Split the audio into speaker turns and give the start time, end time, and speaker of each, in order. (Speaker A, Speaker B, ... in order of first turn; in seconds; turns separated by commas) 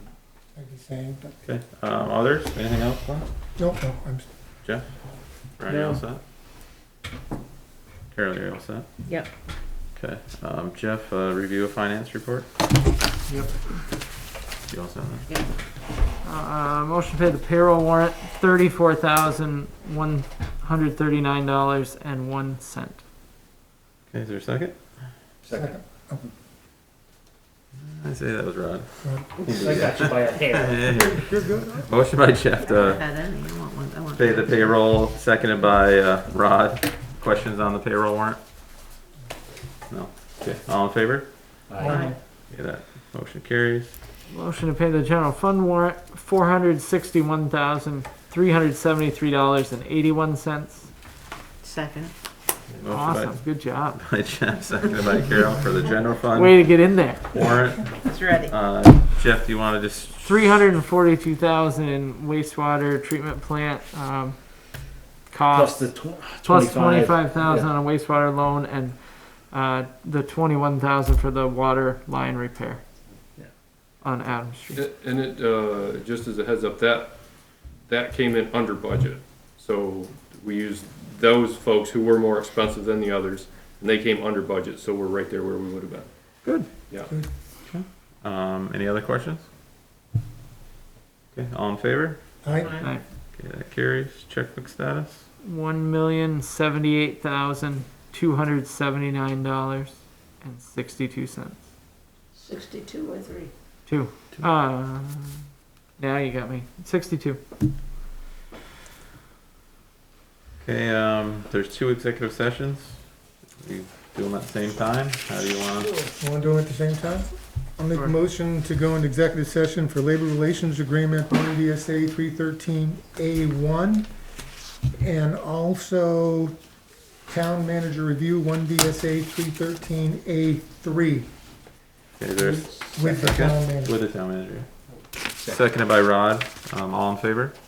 Speaker A: 0.6-1.4, Speaker B: 1.4-3.2, Speaker A: 3.6-4.3, Speaker B: 5.6-6.2, Speaker C: 5.7-5.9, Speaker B: 8.1-8.9, Speaker B: 9.9-12.5, Speaker A: 13.3-13.5, Speaker B: 14.7-15.3, Speaker C: 16.2-23.0, Speaker B: 24.1-24.8, Speaker D: 25.4-25.8, Speaker A: 25.5-26.3, Speaker B: 27.8-33.0, Speaker D: 29.4-30.9, Speaker A: 30.9-31.9, Speaker E: 32.6-34.7, Speaker B: 34.1-38.4, Speaker B: 39.9-41.3, Speaker D: 41.7-42.1, Speaker A: 41.8-42.1, Speaker E: 41.9-42.1, Speaker B: 42.5-43.9, Speaker C: 44.3-50.9, Speaker E: 51.6-52.1, Speaker B: 52.7-60.3, Speaker C: 52.9-54.0, Speaker C: 56.3-57.4, Speaker E: 58.0-58.5, Speaker C: 60.2-65.9, Speaker D: 65.5-67.7, Speaker C: 66.4-72.8, Speaker C: 74.0-74.9, Speaker F: 74.7-77.2, Speaker F: 77.8-86.1, Speaker B: 87.7-89.5, Speaker B: 91.3-92.2, Speaker A: 92.4-92.7, Speaker E: 92.6-92.9, Speaker B: 93.3-95.2, Speaker C: 95.4-101.6, Speaker E: 102.3-103.5, Speaker C: 103.8-105.4, Speaker C: 106.0-107.4, Speaker B: 110.6-116.0, Speaker A: 116.2-124.1, Speaker A: 125.0-126.5, Speaker A: 127.3-131.3, Speaker B: 132.2-134.7, Speaker A: 132.4-133.9, Speaker D: 135.3-135.6, Speaker B: 135.4-137.6